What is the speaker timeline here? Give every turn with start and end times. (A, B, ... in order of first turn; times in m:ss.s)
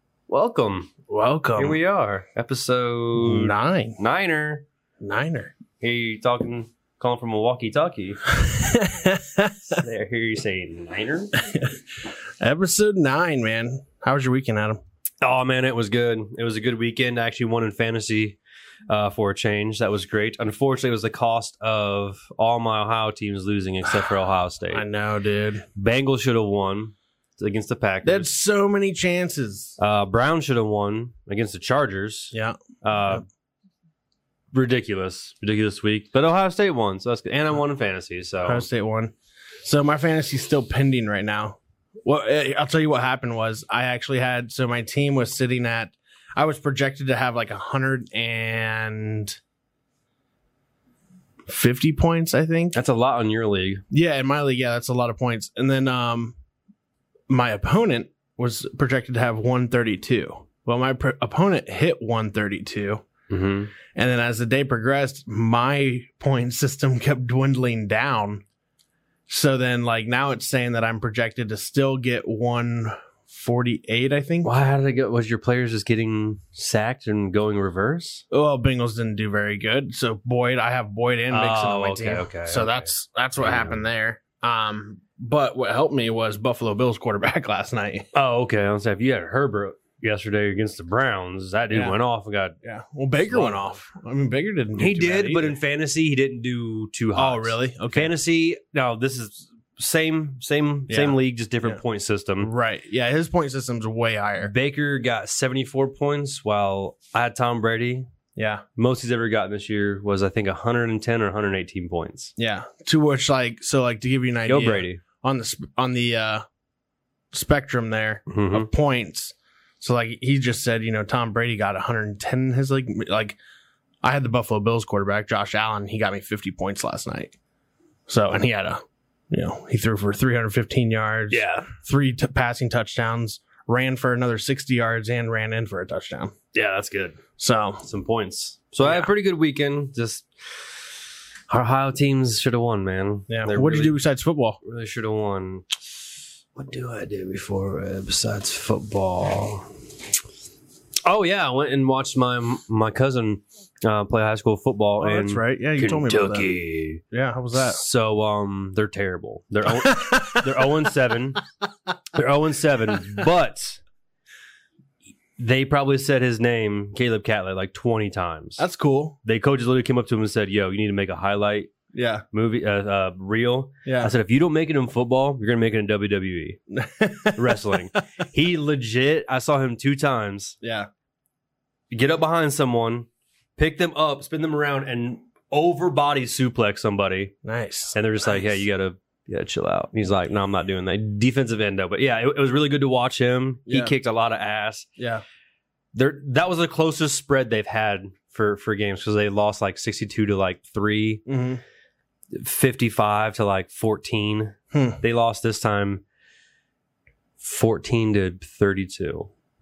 0:00.3-0:00.9 A
0:01.1-0:01.8 B
0:01.6-0:04.6 A
0:03.2-0:04.0 B
0:05.0-0:05.5 B
0:05.8-0:08.2 A
0:08.3-0:09.7 B
0:09.7-0:11.3 A
0:11.4-0:11.8 B
0:12.4-0:14.8 B
0:15.2-0:18.4 A
0:18.9-0:24.8 A
0:24.7-0:25.6 B
0:25.7-0:28.3 A
0:28.0-0:29.8 B
0:29.8-0:33.2 A
0:32.3-0:33.2 B
0:34.5-0:38.6 A
0:38.4-0:49.4 B
0:51.5-0:52.8 B
0:52.7-0:53.8 A
0:53.9-0:56.4 B
0:57.3-1:03.0 B
1:03.3-1:03.7 A
1:03.9-1:08.4 B
1:09.3-1:14.5 B
1:14.4-1:18.2 A
1:18.3-1:28.1 B
1:21.3-1:23.8 A
1:28.1-1:32.5 A
1:32.6-1:35.5 B
1:33.3-1:33.6 A
1:34.8-1:42.5 A
1:37.2-1:38.1 B
1:40.9-1:41.8 B
1:42.4-1:44.5 B
1:44.4-1:48.1 A
1:48.4-1:48.6 B
1:48.8-1:52.3 A
1:52.4-1:56.4 B
1:54.5-1:55.0 A
1:57.3-2:03.4 B
1:58.3-1:58.7 A
2:04.0-2:07.3 B
2:08.1-2:16.3 B
2:11.3-2:11.7 A
2:16.5-2:17.2 A
2:17.4-2:17.8 B
2:17.8-2:20.6 A
2:18.8-2:19.1 B
2:21.5-2:24.0 A
2:23.3-2:24.6 B
2:24.6-2:25.8 A
2:26.5-2:29.7 A
2:31.0-2:37.0 A
2:35.0-2:36.5 B
2:37.1-2:37.8 B
2:37.5-2:41.4 A
2:39.7-2:40.6 B
2:42.1-2:43.8 A
2:45.4-2:48.6 A
2:48.6-2:49.2 B
2:49.2-2:51.7 A
2:51.9-2:52.2 B
2:52.3-2:56.6 A
2:53.8-2:54.1 B
2:56.7-2:57.8 B
2:57.3-3:00.6 A
3:00.6-3:00.9 B
3:01.9-3:07.4 A
3:07.4-3:08.3 B
3:07.9-3:14.9 A
3:13.7-3:13.9 B
3:15.0-3:15.2 B
3:15.9-3:21.2 A
3:21.3-3:21.6 B
3:22.3-3:26.0 A
3:24.7-3:25.0 B
3:27.4-3:29.3 A